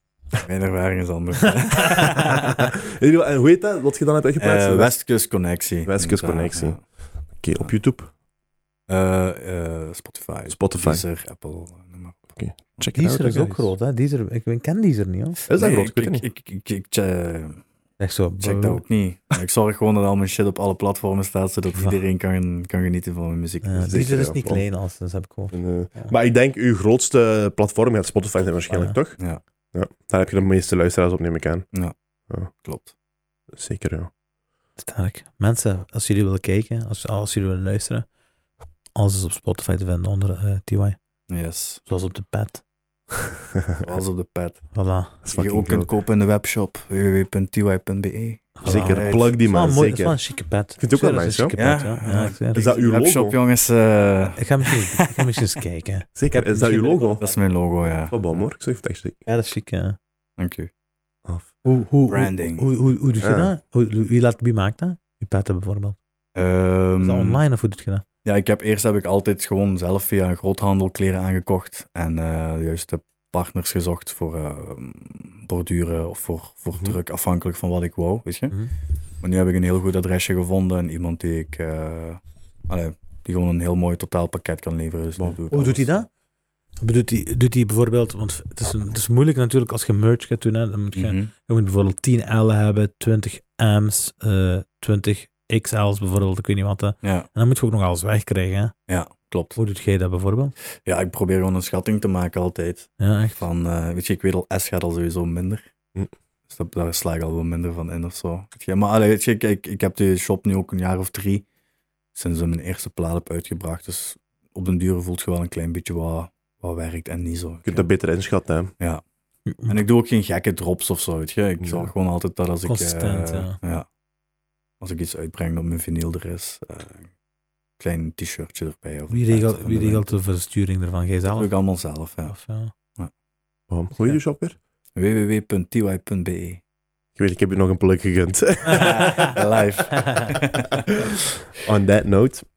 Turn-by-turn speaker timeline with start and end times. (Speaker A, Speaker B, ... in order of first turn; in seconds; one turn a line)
Speaker A: 0.4-2.4
Speaker B: 1.4-2.7
Speaker C: 2.3-4.9
Speaker A: 4.4-6.8
Speaker C: 5.9-6.8
Speaker C: 7.4-8.1
Speaker A: 8.9-12.2
Speaker C: 10.5-11.0
Speaker C: 12.4-13.7
Speaker B: 12.9-15.4
Speaker C: 15.5-16.2
Speaker A: 15.6-17.6
Speaker B: 18.0-18.8
Speaker A: 18.4-23.9
Speaker B: 23.6-26.1
Speaker C: 23.9-24.6
Speaker C: 25.5-29.2
Speaker B: 28.7-29.0
Speaker C: 29.7-31.6
Speaker A: 32.6-32.9
Speaker C: 33.5-34.1
Speaker B: 34.8-38.1
Speaker B: 39.0-41.0
Speaker A: 41.3-41.8
Speaker B: 41.9-42.6
Speaker A: 43.8-44.7
Speaker B: 44.7-45.2
Speaker C: 45.3-45.9
Speaker A: 45.3-49.4
Speaker B: 48.6-52.6
Speaker C: 48.6-50.2
Speaker C: 50.8-51.5
Speaker A: 51.5-55.4
Speaker C: 52.5-53.4
Speaker B: 54.4-57.3
Speaker C: 56.2-57.2
Speaker A: 57.2-58.2
Speaker C: 58.1-59.2
Speaker B: 59.3-60.0
Speaker A: 60.4-60.7
Speaker B: 61.6-66.0
Speaker A: 62.1-62.7
Speaker C: 63.2-63.5
Speaker A: 66.3-67.4
Speaker B: 67.0-68.0
Speaker A: 68.2-78.5
Speaker A: 79.2-85.9
Speaker B: 85.5-86.1
Speaker B: 86.8-98.7
Speaker A: 91.0-91.3
Speaker A: 97.0-97.3
Speaker A: 98.9-99.6
Speaker B: 99.6-100.5
Speaker A: 100.9-105.6
Speaker B: 103.0-103.4
Speaker A: 106.5-111.4
Speaker A: 112.2-117.9
Speaker C: 117.7-118.7
Speaker B: 119.5-119.7
Speaker A: 119.7-123.9
Speaker C: 121.6-121.9
Speaker B: 122.7-123.6
Speaker A: 124.8-127.1
Speaker A: 127.8-130.0
Speaker B: 129.1-131.5
Speaker A: 131.3-132.4
Speaker B: 132.3-132.7
Speaker C: 133.7-134.6
Speaker A: 135.0-136.6
Speaker C: 137.2-139.3
Speaker B: 138.7-139.4
Speaker A: 138.7-140.9
Speaker B: 140.0-140.3
Speaker C: 141.6-142.4